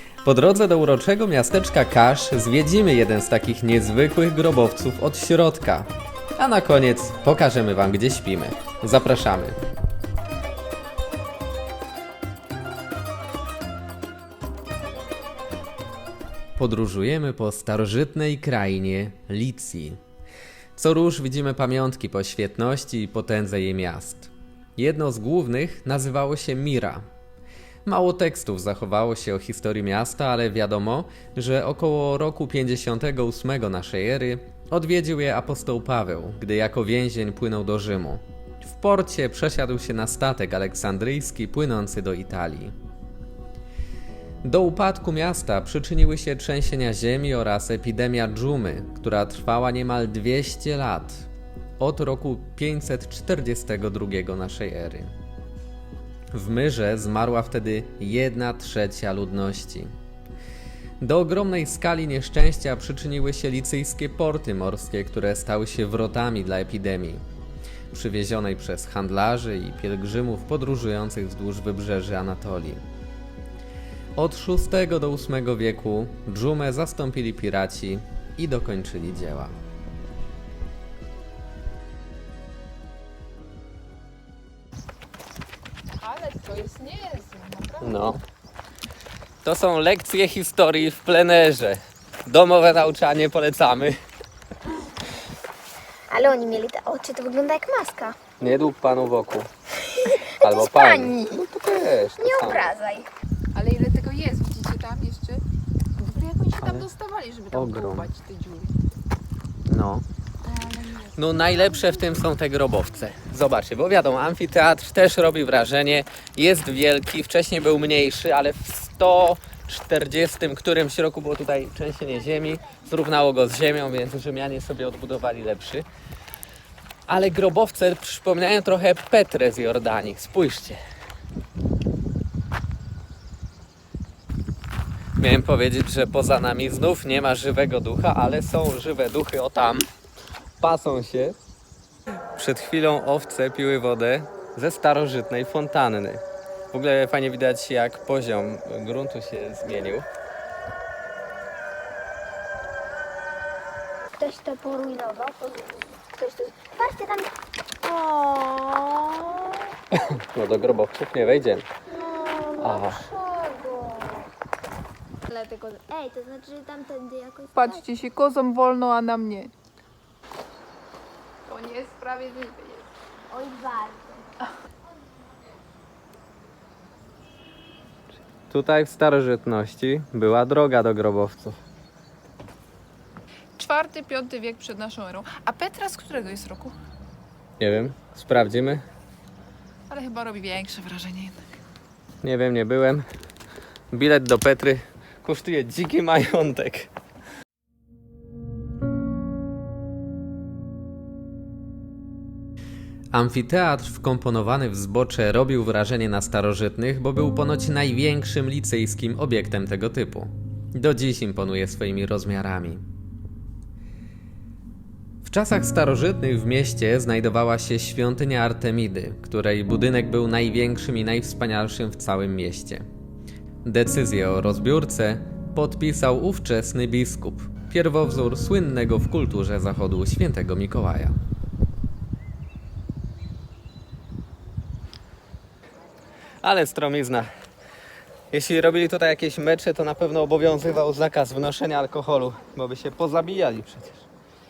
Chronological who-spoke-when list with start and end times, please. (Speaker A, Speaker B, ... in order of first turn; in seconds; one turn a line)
Speaker A: 0.2-9.6
Speaker A: 16.6-20.0
Speaker A: 20.8-27.1
Speaker A: 27.9-42.8
Speaker A: 44.4-51.3
Speaker A: 51.8-55.1
Speaker A: 56.3-59.9
Speaker A: 61.0-67.2
Speaker A: 67.9-72.8
Speaker A: 74.2-79.5
Speaker B: 86.0-88.1
Speaker A: 87.8-88.2
Speaker A: 89.4-94.0
Speaker C: 96.1-98.2
Speaker A: 98.4-99.5
Speaker C: 100.0-101.4
Speaker A: 100.4-102.7
Speaker C: 102.2-103.1
Speaker B: 103.5-105.4
Speaker B: 106.0-108.7
Speaker A: 106.6-106.9
Speaker A: 107.5-108.1
Speaker A: 109.7-110.0
Speaker B: 110.5-111.1
Speaker A: 111.2-125.8
Speaker A: 127.1-130.8
Speaker A: 135.2-139.9
Speaker A: 140.6-141.4
Speaker A: 142.4-150.1
Speaker C: 154.2-157.3
Speaker C: 157.8-159.7
Speaker A: 159.9-161.7
Speaker C: 161.9-164.3
Speaker A: 162.6-163.0
Speaker C: 165.3-167.8
Speaker B: 167.6-169.5
Speaker B: 171.5-172.9
Speaker C: 173.3-174.3
Speaker A: 178.5-181.6
Speaker B: 183.6-186.7
Speaker A: 187.6-188.8
Speaker B: 189.9-191.5
Speaker A: 192.2-193.1
Speaker A: 193.9-196.9
Speaker A: 203.1-212.8
Speaker A: 215.2-222.8
Speaker A: 223.7-231.2
Speaker A: 236.4-237.3
Speaker A: 238.3-244.1